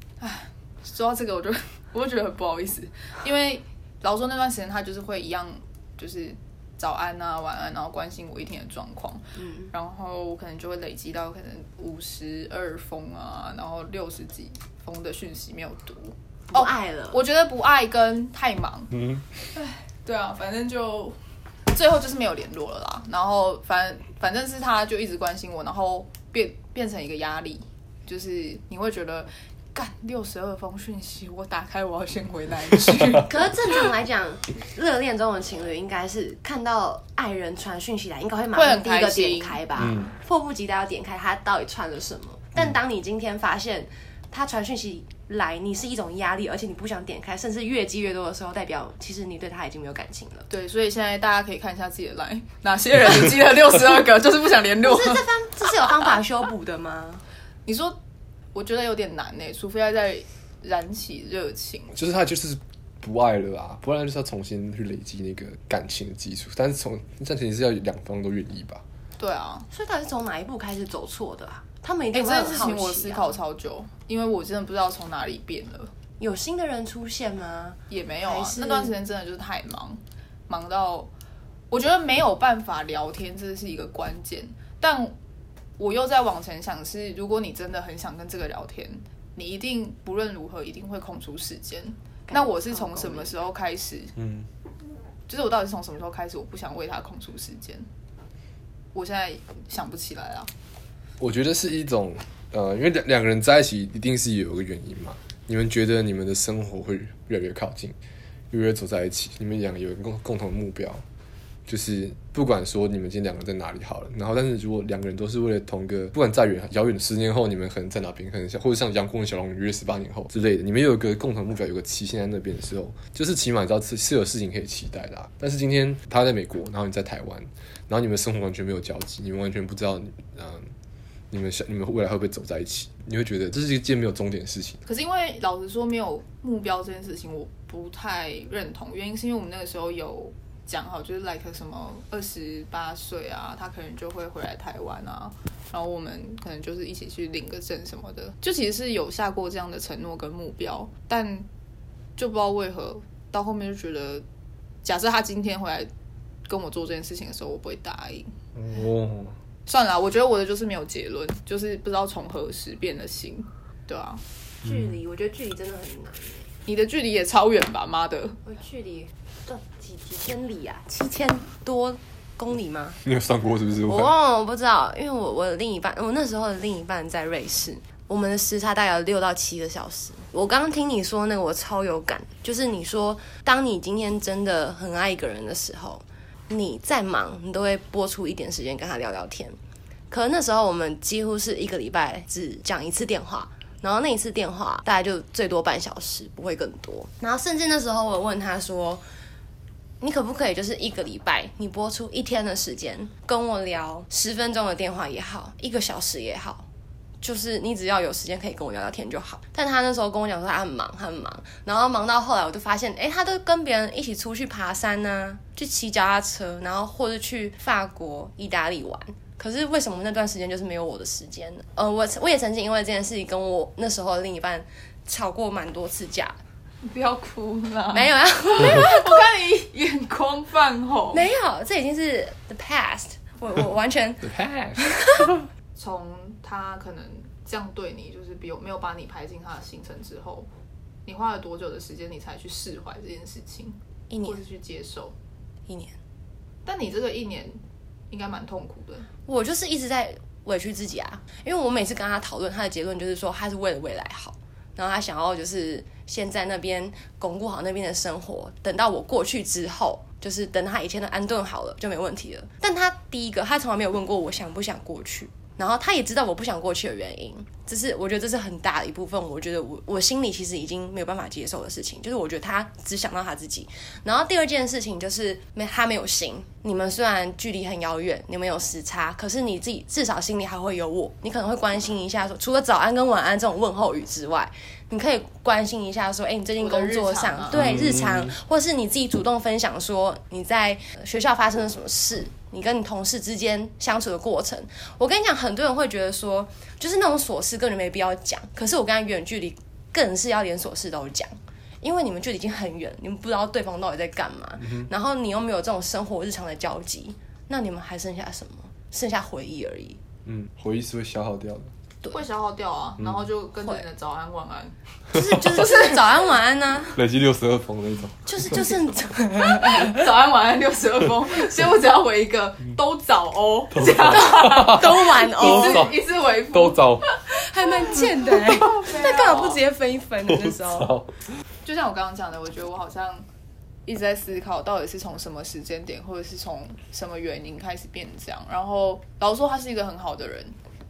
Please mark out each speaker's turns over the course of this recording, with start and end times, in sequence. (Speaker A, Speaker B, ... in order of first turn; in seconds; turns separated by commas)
Speaker A: 0.2-18.9, Speaker B: 9.4-9.7, Speaker B: 16.5-17.2, Speaker C: 18.9-19.3, Speaker A: 19.5-21.2, Speaker A: 21.7-33.8, Speaker B: 33.2-50.5, Speaker A: 38.5-39.6, Speaker C: 39.8-40.1, Speaker A: 50.5-55.3, Speaker B: 54.8-57.2, Speaker A: 57.7-58.0, Speaker A: 58.5-61.9, Speaker C: 61.9-68.8, Speaker A: 69.2-69.7, Speaker B: 69.7-73.3, Speaker A: 72.1-75.9, Speaker B: 76.2-78.9, Speaker A: 77.9-81.1, Speaker A: 81.7-85.2, Speaker A: 85.8-94.2, Speaker B: 92.3-93.3, Speaker C: 94.2-94.5, Speaker A: 95.3-97.9, Speaker A: 98.9-100.5, Speaker C: 101.2-108.0, Speaker C: 108.5-111.0, Speaker C: 111.7-130.7, Speaker C: 131.3-134.8, Speaker A: 134.9-151.5, Speaker A: 152.2-154.2, Speaker A: 154.8-155.9, Speaker A: 156.5-158.3, Speaker C: 158.6-159.3, Speaker A: 159.7-164.2, Speaker B: 164.6-166.5, Speaker C: 164.7-164.9, Speaker A: 166.7-168.4, Speaker B: 168.4-173.0, Speaker C: 173.0-174.1, Speaker B: 173.8-189.6, Speaker B: 190.1-199.0, Speaker B: 200.0-206.7, Speaker B: 207.2-226.4, Speaker A: 226.8-231.2, Speaker B: 227.9-229.2, Speaker B: 231.1-235.4, Speaker C: 234.2-234.9, Speaker A: 235.8-240.5, Speaker A: 241.1-245.2, Speaker B: 244.1-244.4, Speaker B: 245.7-245.9, Speaker A: 246.7-247.6, Speaker A: 248.1-249.1, Speaker B: 249.3-310.0, Speaker A: 286.6-287.8, Speaker C: 287.5-288.3, Speaker C: 310.3-311.7, Speaker A: 312.1-314.8, Speaker B: 315.1-317.0, Speaker C: 315.1-315.6, Speaker C: 316.9-318.7, Speaker B: 318.3-319.8, Speaker A: 319.4-327.2, Speaker C: 323.8-326.0, Speaker B: 324.1-325.9, Speaker C: 326.5-327.1, Speaker B: 327.3-331.0, Speaker A: 327.9-329.6, Speaker C: 330.3-331.1, Speaker A: 331.6-333.3, Speaker A: 333.9-340.6